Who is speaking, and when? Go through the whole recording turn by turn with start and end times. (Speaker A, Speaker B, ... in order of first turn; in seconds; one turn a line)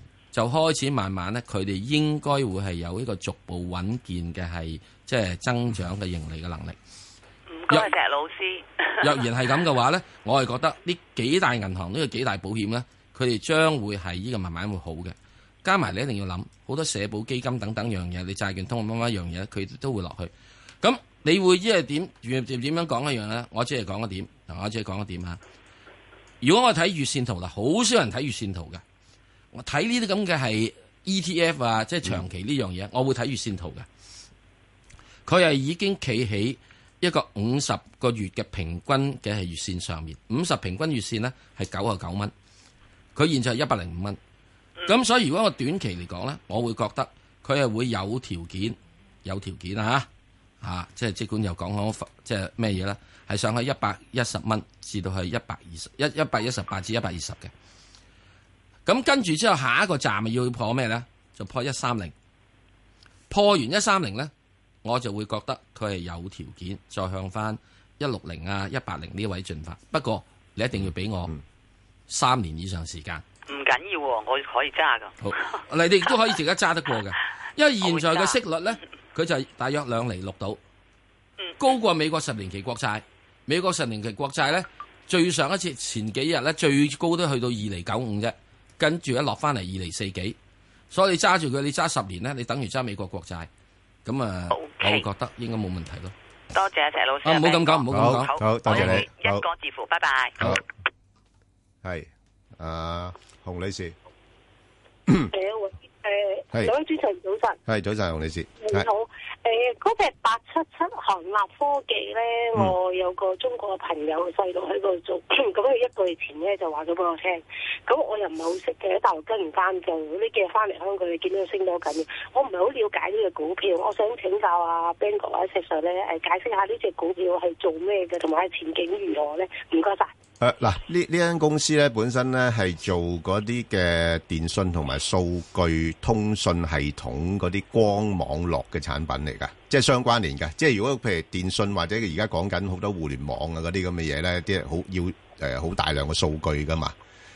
Speaker A: 0.3-6.8
Speaker B: 7.5-9.1
Speaker A: 9.0-25.4
Speaker A: 26.4-28.8
Speaker A: 29.5-33.9
Speaker A: 35.3-42.3
Speaker A: 43.1-44.2
Speaker A: 44.8-50.1
Speaker A: 50.6-57.5
Speaker A: 58.9-62.1
Speaker A: 63.3-64.3
Speaker A: 64.8-71.3
Speaker A: 72.1-73.2
Speaker B: 73.5-75.1
Speaker A: 75.2-80.6
Speaker B: 77.8-78.3
Speaker A: 81.6-90.3
Speaker A: 90.9-93.5
Speaker A: 94.0-96.1
Speaker B: 94.5-95.0
Speaker B: 96.5-100.6
Speaker A: 97.2-99.0
Speaker C: 97.9-99.4
Speaker C: 101.8-103.9
Speaker D: 105.3-107.6
Speaker C: 107.7-108.9
Speaker D: 108.6-130.1
Speaker C: 130.4-146.9